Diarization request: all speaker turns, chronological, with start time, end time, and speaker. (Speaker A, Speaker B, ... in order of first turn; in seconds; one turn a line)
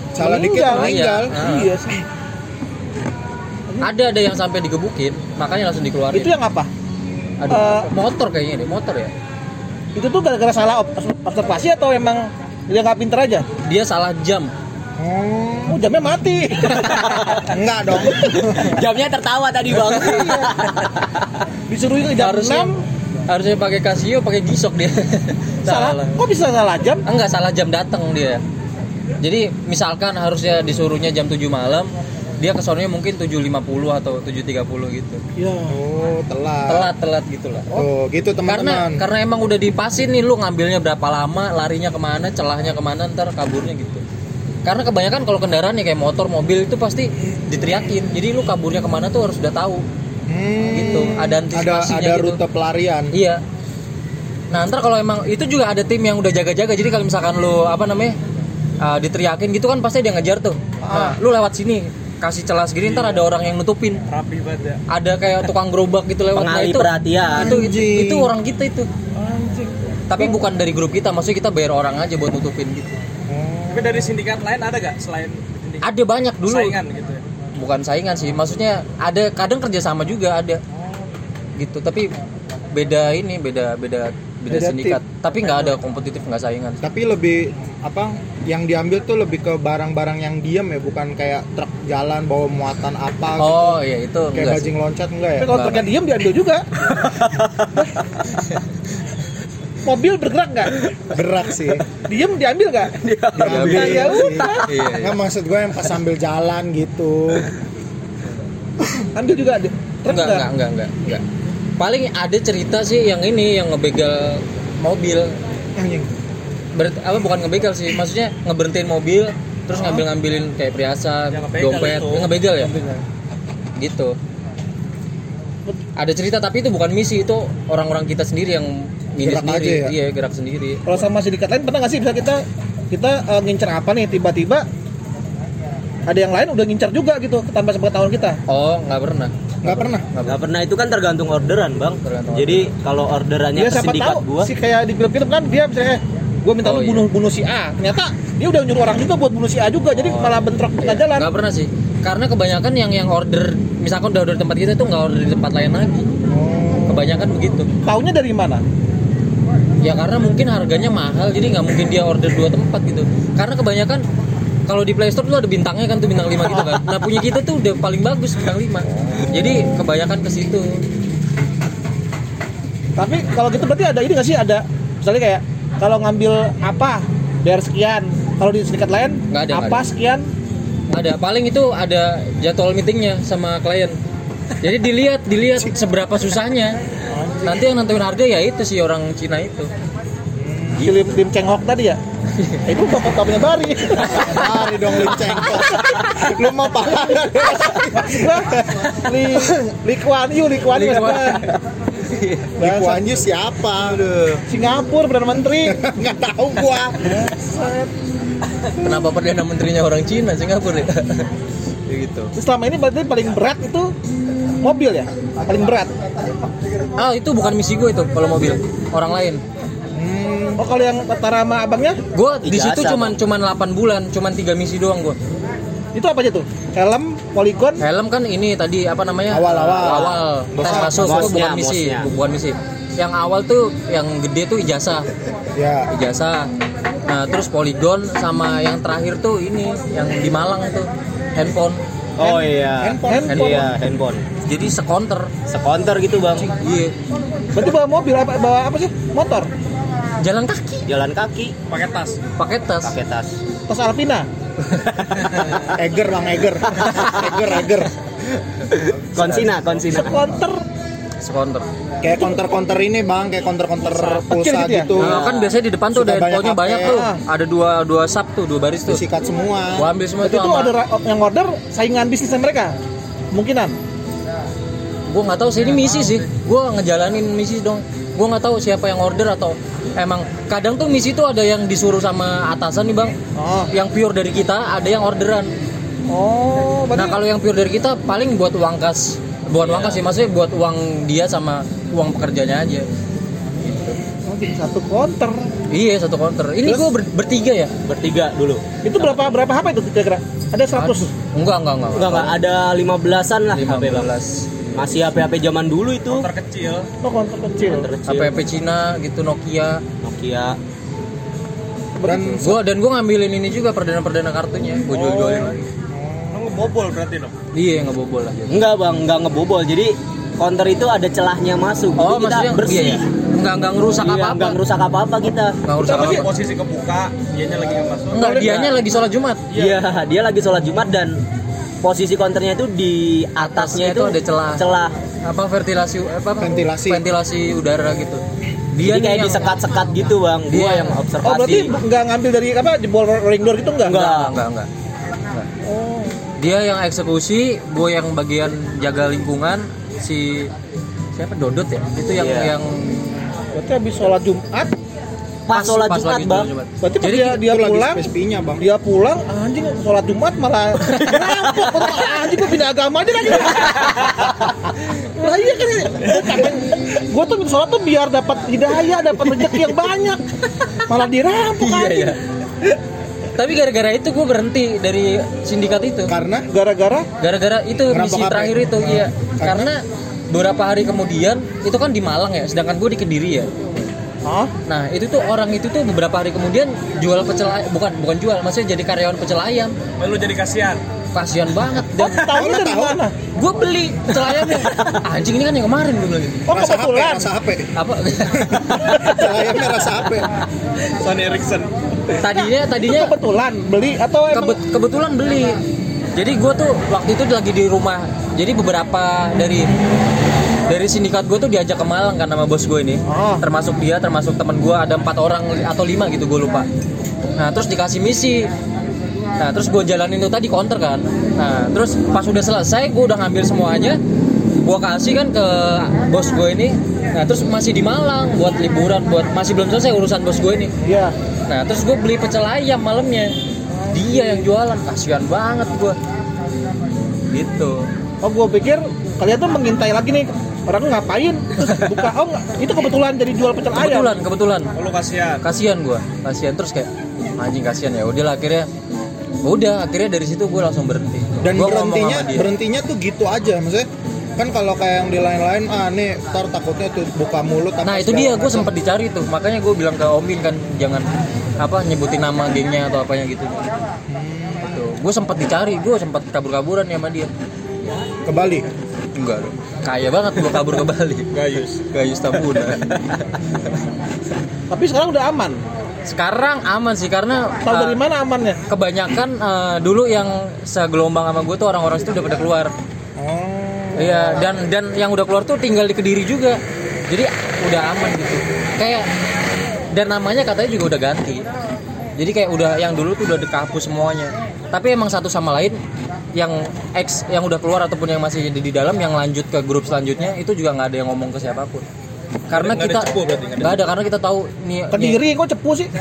Speaker A: 0.1-1.4
Speaker B: 0.2-2.0
Speaker C: 0.7-1.7
Speaker C: 3.8-6.3
Speaker B: 6.1-6.7
Speaker C: 7.4-9.1
Speaker B: 7.5-7.9
Speaker B: 9.9-13.5
Speaker C: 13.6-14.5
Speaker A: 15.0-15.8
Speaker B: 15.7-17.2
Speaker D: 16.8-17.5
Speaker A: 17.5-18.8
Speaker D: 18.1-21.2
Speaker B: 19.8-20.5
Speaker B: 21.7-22.8
Speaker C: 22.2-22.7
Speaker C: 23.3-26.2
Speaker B: 25.6-27.1
Speaker C: 27.1-28.4
Speaker C: 29.2-35.2
Speaker B: 35.4-35.8
Speaker A: 35.7-36.9
Speaker C: 36.7-37.8
Speaker A: 37.7-39.0
Speaker C: 38.5-44.0
Speaker C: 44.6-49.9
Speaker A: 50.3-53.1
Speaker C: 50.7-52.4
Speaker C: 53.1-53.4
Speaker C: 54.5-58.2
Speaker C: 58.8-64.0
Speaker B: 60.8-61.2
Speaker E: 62.8-63.3
Speaker E: 64.1-64.8
Speaker C: 64.9-68.9
Speaker D: 66.3-67.6
Speaker A: 67.3-68.3
Speaker B: 69.2-70.3
Speaker C: 70.1-73.0
Speaker A: 73.3-74.1
Speaker E: 73.7-75.9
Speaker C: 75.8-76.8
Speaker E: 76.4-77.2
Speaker C: 77.5-80.6
Speaker C: 81.6-82.1
Speaker C: 82.7-86.8
Speaker B: 84.5-85.0
Speaker A: 86.8-93.8
Speaker C: 93.4-94.7
Speaker A: 94.3-95.6
Speaker B: 95.4-96.7
Speaker C: 95.5-95.9
Speaker D: 96.9-97.9
Speaker B: 99.8-100.8
Speaker A: 101.1-101.9
Speaker B: 102.0-103.0
Speaker D: 103.0-104.8
Speaker A: 103.3-107.5
Speaker C: 103.4-104.1
Speaker B: 103.7-104.7
Speaker C: 104.7-105.2
Speaker B: 109.1-110.5
Speaker C: 110.1-111.2
Speaker C: 111.8-115.4
Speaker A: 115.8-116.1
Speaker C: 116.7-122.7
Speaker B: 119.8-120.0
Speaker E: 121.3-122.3
Speaker B: 122.7-123.0
Speaker C: 123.8-124.2
Speaker C: 126.0-131.0
Speaker A: 129.2-130.0
Speaker B: 130.9-134.7
Speaker B: 136.1-138.4
Speaker C: 138.5-140.4
Speaker A: 139.6-140.1
Speaker D: 140.3-144.5
Speaker C: 142.0-142.7
Speaker B: 143.6-151.3
Speaker C: 146.6-147.1
Speaker D: 150.1-150.4
Speaker C: 150.8-156.1
Speaker A: 156.3-157.2
Speaker C: 156.9-157.7
Speaker B: 157.8-158.6
Speaker C: 159.8-164.1
Speaker C: 164.7-170.8
Speaker A: 169.1-169.7
Speaker B: 173.0-180.3
Speaker C: 179.3-179.8
Speaker C: 180.9-184.0
Speaker C: 184.6-186.8
Speaker A: 187.1-187.6
Speaker C: 187.4-189.7
Speaker A: 190.4-190.9
Speaker B: 190.8-192.0
Speaker B: 192.7-194.6
Speaker A: 194.0-199.4
Speaker C: 195.2-195.7
Speaker B: 197.7-201.5
Speaker C: 200.7-202.6
Speaker B: 202.6-203.1
Speaker A: 202.6-204.0
Speaker C: 204.0-204.4
Speaker B: 204.5-205.8
Speaker A: 205.6-207.2
Speaker B: 207.1-207.9
Speaker C: 208.8-211.3
Speaker C: 211.9-212.3
Speaker B: 212.4-213.9
Speaker B: 214.6-215.9
Speaker C: 217.0-219.4
Speaker A: 219.9-220.6
Speaker B: 220.6-222.0
Speaker C: 222.1-225.2
Speaker D: 222.4-223.2
Speaker B: 225.9-227.8
Speaker C: 227.8-235.1
Speaker A: 229.3-231.5
Speaker D: 229.8-230.2
Speaker D: 230.9-232.1
Speaker A: 235.5-235.9
Speaker C: 235.9-236.5
Speaker C: 237.1-241.8
Speaker D: 242.2-244.2
Speaker A: 242.2-243.6
Speaker B: 243.1-243.4
Speaker C: 243.3-243.7
Speaker C: 244.4-245.3
Speaker D: 245.5-246.6
Speaker C: 246.6-246.9
Speaker B: 247.5-249.5
Speaker C: 250.2-250.8
Speaker D: 250.9-251.6
Speaker E: 251.7-252.2
Speaker C: 252.4-252.9
Speaker D: 252.8-253.4
Speaker B: 253.7-254.3
Speaker D: 254.8-255.7
Speaker A: 255.8-257.9
Speaker D: 256.8-257.3
Speaker D: 258.7-260.3
Speaker C: 259.2-259.6
Speaker B: 259.9-260.6
Speaker C: 261.2-261.7
Speaker A: 262.0-265.2
Speaker B: 263.9-264.9
Speaker D: 264.9-265.6
Speaker C: 265.0-269.0
Speaker A: 265.9-267.0
Speaker B: 266.8-267.2
Speaker A: 268.9-269.9
Speaker C: 269.8-270.7
Speaker B: 270.2-272.8
Speaker B: 273.3-273.8
Speaker C: 275.1-283.2
Speaker B: 283.4-283.7
Speaker C: 283.7-285.5
Speaker B: 286.1-287.2
Speaker C: 286.9-292.9
Speaker D: 289.6-290.1
Speaker C: 293.6-294.0
Speaker B: 294.3-295.5
Speaker C: 295.7-297.7
Speaker A: 296.6-296.9
Speaker D: 297.8-299.2
Speaker B: 298.8-301.1
Speaker C: 300.8-302.4
Speaker D: 301.9-304.1
Speaker C: 303.5-304.7
Speaker D: 304.7-306.3
Speaker E: 306.1-306.9
Speaker B: 307.0-307.9
Speaker D: 307.6-308.4
Speaker C: 308.1-309.8
Speaker D: 310.0-310.6
Speaker B: 312.0-312.3
Speaker A: 312.1-312.6
Speaker C: 312.1-315.7
Speaker E: 315.0-315.3
Speaker A: 315.9-316.6
Speaker E: 316.3-317.4
Speaker C: 317.5-318.6
Speaker D: 318.5-323.0
Speaker C: 322.0-324.6
Speaker D: 324.0-325.6
Speaker C: 325.6-326.4
Speaker E: 325.8-328.8
Speaker B: 325.9-326.2
Speaker C: 328.1-329.5
Speaker B: 328.3-328.5
Speaker E: 329.5-329.8
Speaker D: 329.5-331.2
Speaker D: 331.8-334.9
Speaker C: 333.4-334.6
Speaker C: 335.2-338.2
Speaker A: 336.4-337.1
Speaker C: 338.7-339.5
Speaker D: 338.8-341.8
Speaker C: 340.5-341.0
Speaker B: 341.2-344.0
Speaker C: 343.8-344.7
Speaker D: 343.9-344.4
Speaker B: 345.6-346.4
Speaker C: 346.4-350.5
Speaker C: 351.1-353.3
Speaker D: 352.1-352.5
Speaker B: 353.5-354.7
Speaker D: 355.5-356.5
Speaker C: 355.5-357.4
Speaker B: 356.8-358.1
Speaker A: 357.2-358.7
Speaker B: 358.6-364.5
Speaker C: 360.9-361.2
Speaker B: 365.1-370.2
Speaker B: 370.8-372.2
Speaker C: 371.6-372.2
Speaker C: 373.3-376.1
Speaker A: 376.1-376.5
Speaker B: 376.5-377.1
Speaker C: 377.2-383.5
Speaker A: 377.9-379.7
Speaker B: 384.3-384.5
Speaker C: 384.7-389.8
Speaker E: 390.0-390.8
Speaker C: 391.1-392.3
Speaker B: 392.0-393.1
Speaker A: 392.3-393.0
Speaker C: 393.3-396.5
Speaker B: 396.5-397.3
Speaker A: 396.5-397.7
Speaker C: 397.8-399.2
Speaker A: 398.5-400.3
Speaker E: 400.9-401.7
Speaker C: 402.1-403.1
Speaker B: 402.4-404.6
Speaker C: 404.3-405.6
Speaker C: 406.1-409.7
Speaker C: 410.7-416.7
Speaker B: 413.1-413.4
Speaker C: 417.4-418.5
Speaker C: 419.4-424.0
Speaker C: 424.5-430.7
Speaker B: 430.8-431.1
Speaker C: 431.5-433.4
Speaker B: 433.7-434.4
Speaker C: 433.9-436.0
Speaker C: 437.3-437.9
Speaker B: 438.2-444.1
Speaker C: 443.7-444.7
Speaker E: 444.8-445.4
Speaker C: 445.4-448.7
Speaker C: 449.4-452.5
Speaker A: 451.4-458.7
Speaker C: 457.9-461.1
Speaker C: 461.6-463.8
Speaker A: 464.1-464.8
Speaker C: 464.6-467.3
Speaker A: 468.2-468.7
Speaker C: 469.1-473.3
Speaker E: 471.3-471.8
Speaker B: 474.7-475.6
Speaker C: 476.1-478.0
Speaker B: 477.6-478.6
Speaker C: 478.7-482.7
Speaker A: 483.2-484.5
Speaker C: 483.9-489.1
Speaker C: 489.9-491.5
Speaker C: 492.2-495.8
Speaker C: 496.4-501.9
Speaker C: 502.5-505.2
Speaker E: 502.5-503.9
Speaker B: 504.9-505.9